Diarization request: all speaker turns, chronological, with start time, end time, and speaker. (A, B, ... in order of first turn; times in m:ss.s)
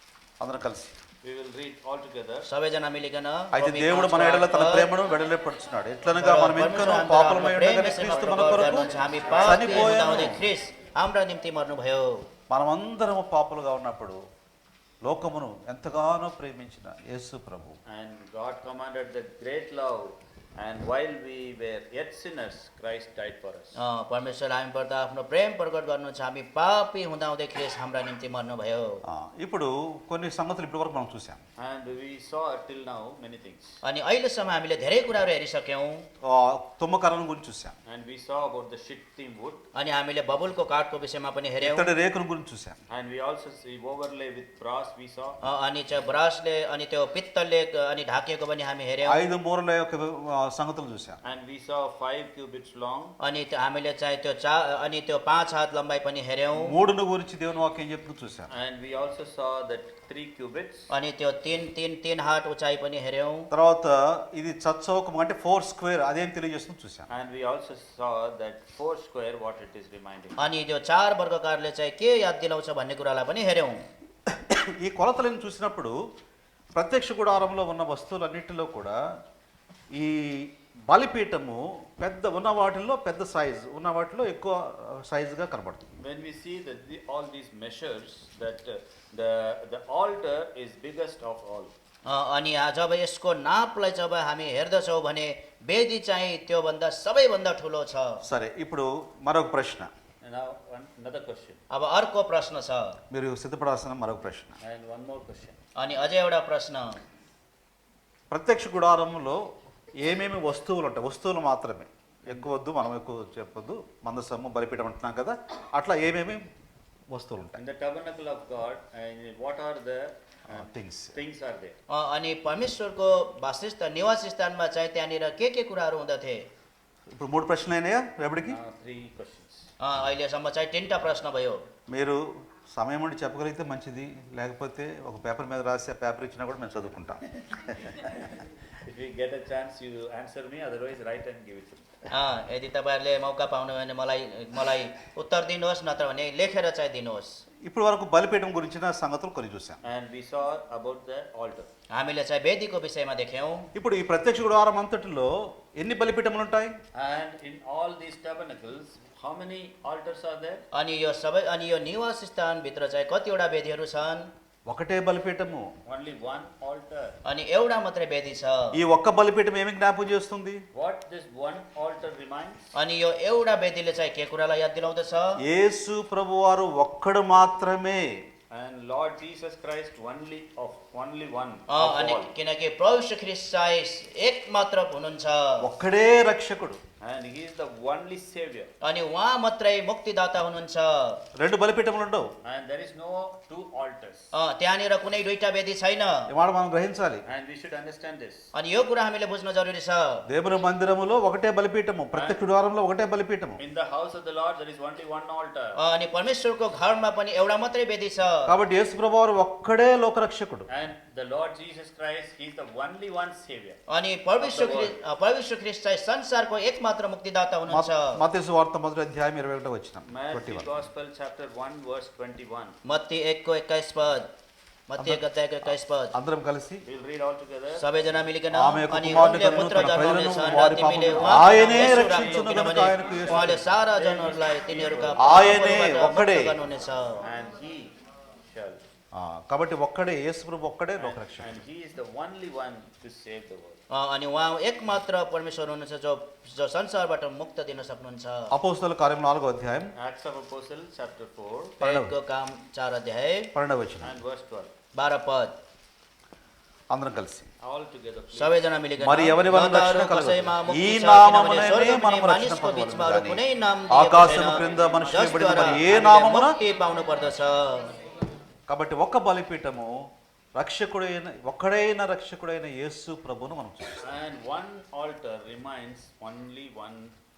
0:00.4-0:01.0 A
0:01.2-0:02.5 B
0:02.5-0:04.9 C
0:03.5-0:08.9 A
0:06.2-0:12.2 C
0:08.0-0:09.9 B
0:09.4-0:10.4 A
0:12.5-0:14.2 A
0:15.0-0:17.8 A
0:17.9-0:23.8 B
0:23.8-0:29.0 C
0:29.1-0:31.4 A
0:31.6-0:33.8 B
0:33.8-0:36.0 C
0:36.2-0:37.8 A
0:37.9-0:39.6 B
0:39.8-0:41.9 C
0:41.6-0:42.8 A
0:42.9-0:45.4 B
0:45.4-0:49.2 C
0:49.0-0:51.2 A
0:51.2-0:53.2 B
0:53.2-0:56.8 C
0:56.6-0:58.5 A
0:58.5-1:00.9 B
1:00.9-1:03.5 C
1:03.5-1:07.1 A
1:07.1-1:10.4 B
1:10.4-1:13.8 C
1:14.3-1:16.0 A
1:16.8-1:19.0 A
1:19.9-1:25.9 A
1:26.0-1:31.7 B
1:32.1-1:38.2 C
1:38.2-1:39.9 A
1:40.2-1:41.6 B
1:41.7-1:43.0 C
1:43.1-1:44.6 A
1:44.6-1:45.6 B
1:45.8-1:47.0 C
1:48.3-1:49.4 A
1:50.0-1:56.4 A
1:57.1-1:57.6 A
1:57.6-2:01.8 B
2:00.5-2:01.2 A
2:01.9-2:06.4 C
2:07.1-2:08.6 A
2:08.5-2:09.7 B
2:09.8-2:11.6 C
2:11.9-2:18.1 A
2:18.8-2:22.1 B
2:22.1-2:27.4 C
2:27.6-2:29.8 A
2:29.8-2:31.7 B
2:31.9-2:33.7 C
2:33.8-2:36.8 A
2:36.9-2:40.6 B
2:40.7-2:44.3 C
2:44.7-2:45.6 A
2:45.9-2:47.2 B
2:47.3-2:48.7 C
2:48.7-2:50.6 A
2:50.7-2:52.7 B
2:52.8-2:55.4 C
2:55.4-2:58.1 A
2:58.5-3:02.3 B
3:01.7-3:05.7 C
3:05.6-3:06.8 A
3:07.0-3:08.7 B
3:08.8-3:11.2 C
3:11.4-3:12.3 A
3:12.4-3:14.3 B
3:14.3-3:16.3 C
3:16.3-3:17.2 A
3:17.3-3:18.5 B
3:18.5-3:20.2 C
3:20.3-3:23.6 A
3:22.1-3:22.4 B
3:23.6-3:25.8 B
3:25.8-3:28.5 C
3:28.5-3:30.7 A
3:30.7-3:33.8 B
3:33.9-3:38.2 C
3:34.4-3:35.0 B
3:37.7-3:40.8 A
3:40.1-3:42.8 B
3:42.8-3:44.3 C
3:44.9-3:46.1 C
3:46.1-3:46.8 A
3:46.8-3:47.8 B
3:47.8-3:57.2 C
3:48.5-3:53.6 A
3:51.4-3:55.8 B
3:55.2-3:56.6 A
3:57.2-3:57.9 B
3:58.4-3:58.8 B
3:59.1-4:01.6 A
4:01.0-4:03.8 B
4:03.9-4:08.5 C
4:08.5-4:09.9 A
4:10.0-4:11.8 B
4:11.8-4:13.5 C
4:11.8-4:12.1 A
4:13.6-4:14.2 A
4:14.0-4:14.7 B
4:14.9-4:15.6 C
4:16.9-4:17.5 A
4:17.6-4:18.6 B
4:18.3-4:27.9 C
4:19.0-4:26.6 A
4:24.4-4:25.8 B
4:28.7-4:29.9 A
4:30.6-4:34.0 A
4:34.0-4:37.1 B